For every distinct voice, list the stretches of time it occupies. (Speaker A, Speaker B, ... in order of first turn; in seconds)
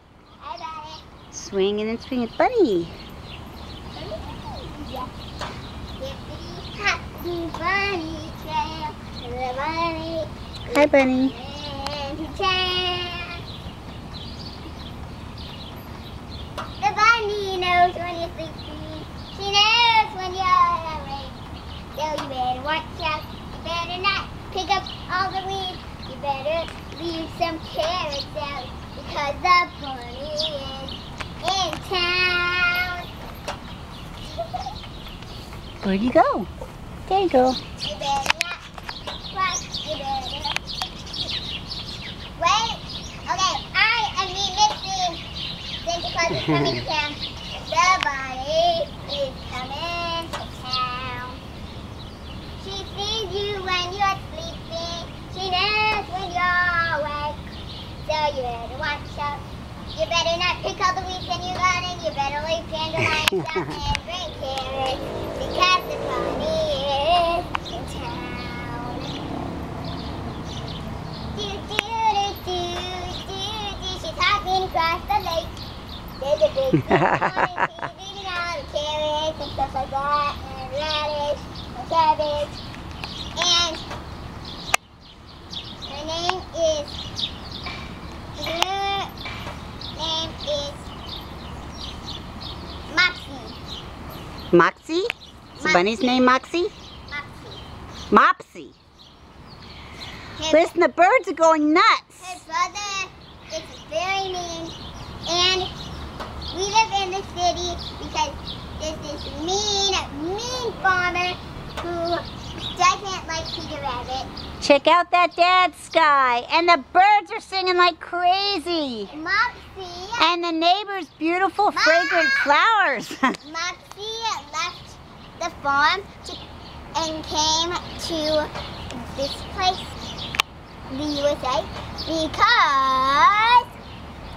Speaker A: 0.4-1.0, 3.9-5.1, 6.0-13.4, 16.8-21.4, 21.9-33.0, 34.4-34.7, 37.8-38.6, 39.3-40.6, 42.4-45.2, 45.8-51.4, 52.6-57.4, 58.0-59.4, 59.9-69.2, 71.3-75.5, 76.2-82.6, 83.3-83.8, 85.8-87.0, 88.3-89.1, 89.9-90.9, 92.9-93.6, 95.5-96.4, 97.1-97.6, 100.3-100.7, 102.2-104.7, 105.2-105.7, 106.5-114.3, 119.1-120.3, 121.7-122.5, 123.4-126.4, 126.9-129.9, 130.9-133.7
Speaker B: 1.3-2.9, 10.7-11.3, 35.8-36.5, 37.1-37.6, 76.9-77.5, 94.5-96.7, 98.1-98.7, 100.5-102.3, 114.6-119.1, 120.2-123.3